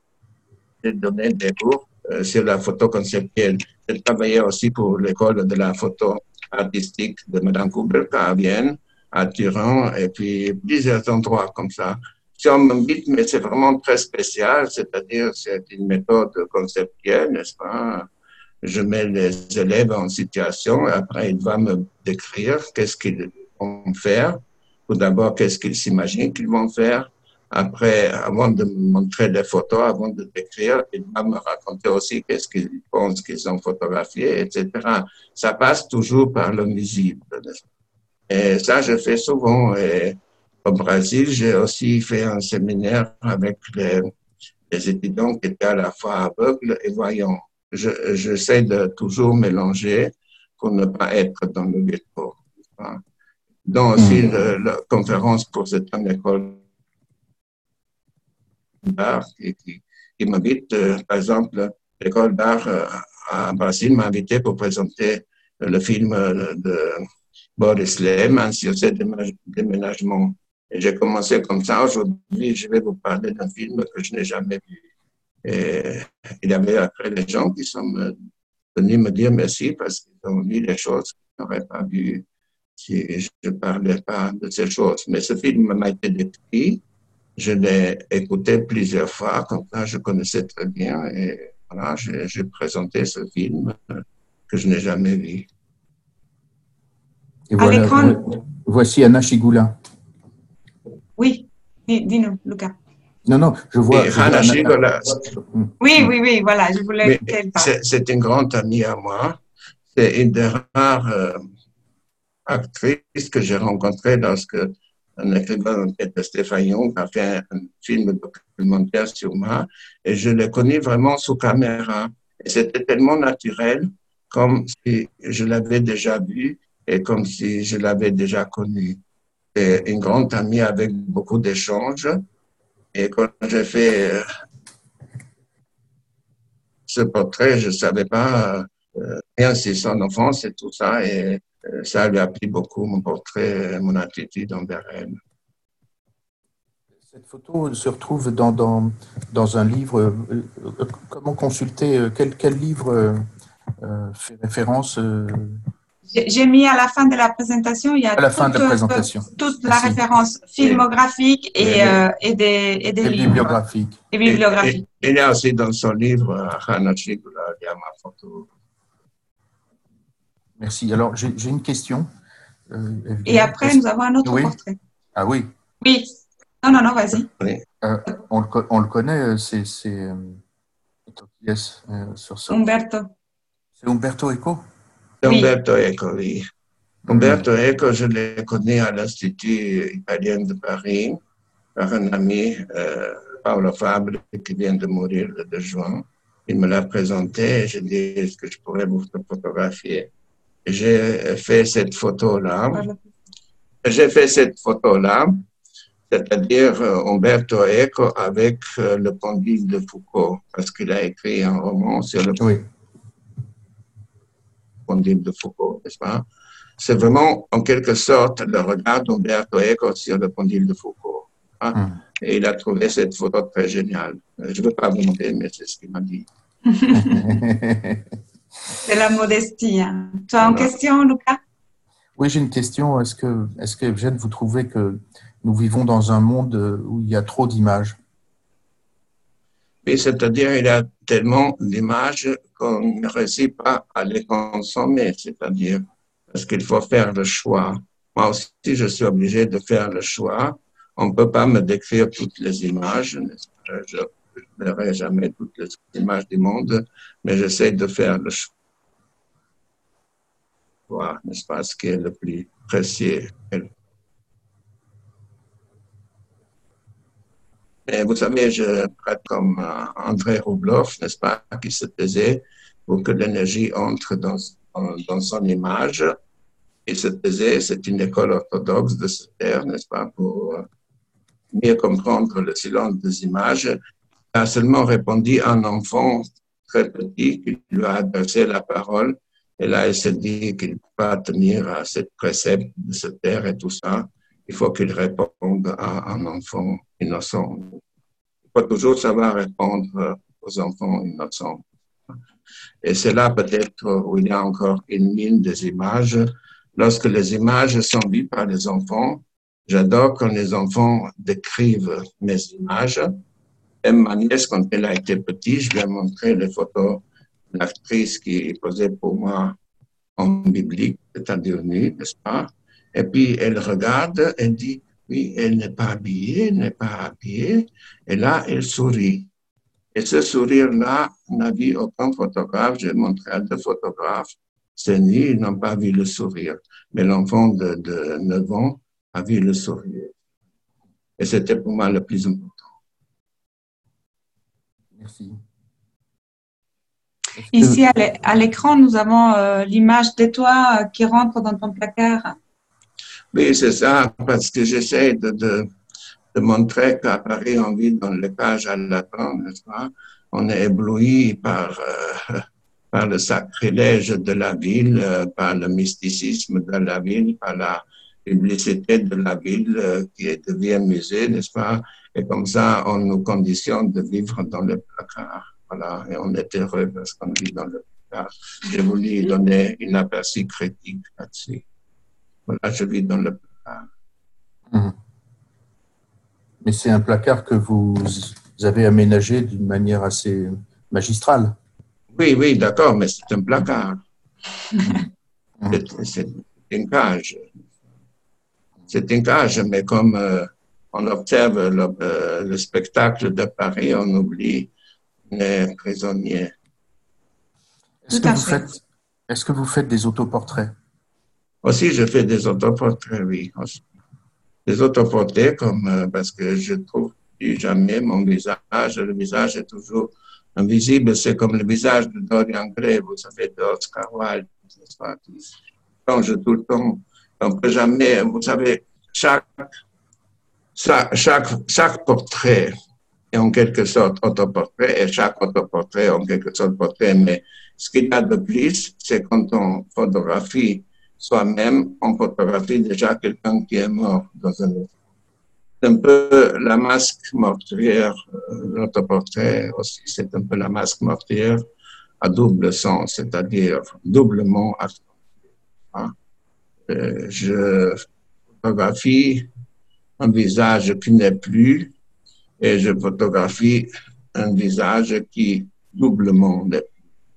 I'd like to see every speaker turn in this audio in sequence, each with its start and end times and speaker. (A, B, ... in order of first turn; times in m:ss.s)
0:00.8-0:18.1 A
0:18.6-0:37.6 A
0:38.3-0:44.1 A
0:44.7-0:53.0 A
0:53.6-0:56.6 A
0:54.0-0:54.3 B
0:58.8-1:14.8 A
1:15.4-1:18.1 A
1:18.7-1:22.2 A
1:22.8-1:26.8 A
1:27.4-1:35.5 A
1:37.5-1:39.8 B
1:37.6-1:38.2 C
1:41.2-1:42.7 C
1:43.3-1:46.0 B
1:43.9-1:45.3 A
1:45.8-1:47.7 C
1:47.0-1:49.4 A
1:49.9-1:51.5 A
1:52.4-2:09.0 A
2:09.5-2:12.2 A
2:12.9-2:14.2 A
2:16.9-2:25.2 A
2:27.1-2:33.2 B
2:33.8-2:35.6 B
2:36.1-2:43.5 C
2:38.2-2:40.0 B
2:41.6-2:42.0 A
2:43.0-2:44.0 B
2:44.1-2:44.8 C
2:44.2-2:48.5 A
2:50.6-2:52.1 B
2:52.7-2:54.6 B
2:53.2-2:54.8 C
2:55.2-2:55.5 B
2:55.8-2:57.3 C
2:57.8-3:00.4 B
3:01.1-3:02.6 B
3:02.5-3:03.1 C
3:03.8-3:04.6 B
3:05.2-3:06.4 A
3:05.2-3:05.5 C
3:07.1-3:07.4 B
3:07.1-3:11.2 A
3:11.7-3:20.1 A
3:20.6-3:22.9 A
3:22.7-3:23.1 C
3:23.8-3:25.4 A
3:26.1-3:32.5 A
3:32.4-3:32.6 B
3:34.9-3:36.2 A
3:36.8-3:46.3 A
3:41.7-3:42.0 B
3:46.7-3:47.4 C
3:46.9-3:48.1 B
3:48.8-3:51.4 C
3:50.4-3:50.7 A
3:52.2-3:58.0 B
3:59.8-4:18.5 A
4:20.9-4:23.7 A
4:27.9-4:36.1 A
4:36.8-4:40.7 A
4:41.5-4:43.8 A
4:44.3-4:57.8 A
4:58.5-5:01.6 A
5:02.8-5:13.2 A
5:13.8-5:19.6 A
5:20.2-5:29.3 A
5:29.9-5:40.2 A
5:41.2-5:42.7 A
5:45.0-5:45.4 B
5:47.4-5:47.9 B
5:47.5-5:52.4 C
5:53.3-5:55.7 A
5:56.3-6:21.6 A
6:22.4-6:23.9 A
6:24.7-6:25.0 B
6:26.6-6:31.6 B
6:32.1-6:34.0 A
6:34.8-6:35.1 B
6:35.7-6:37.6 A
6:38.9-6:44.7 A
6:45.3-6:46.5 A
6:48.0-6:50.7 B
6:48.1-6:48.7 C
6:51.6-6:53.8 A
6:54.6-7:05.5 A
7:06.0-7:09.8 A
7:10.7-7:12.7 A
7:13.3-7:24.9 A
7:25.8-7:31.6 A
7:32.2-7:35.1 A
7:35.9-7:36.1 A
7:36.9-7:39.5 A
7:40.2-7:41.9 A
7:42.6-7:47.0 A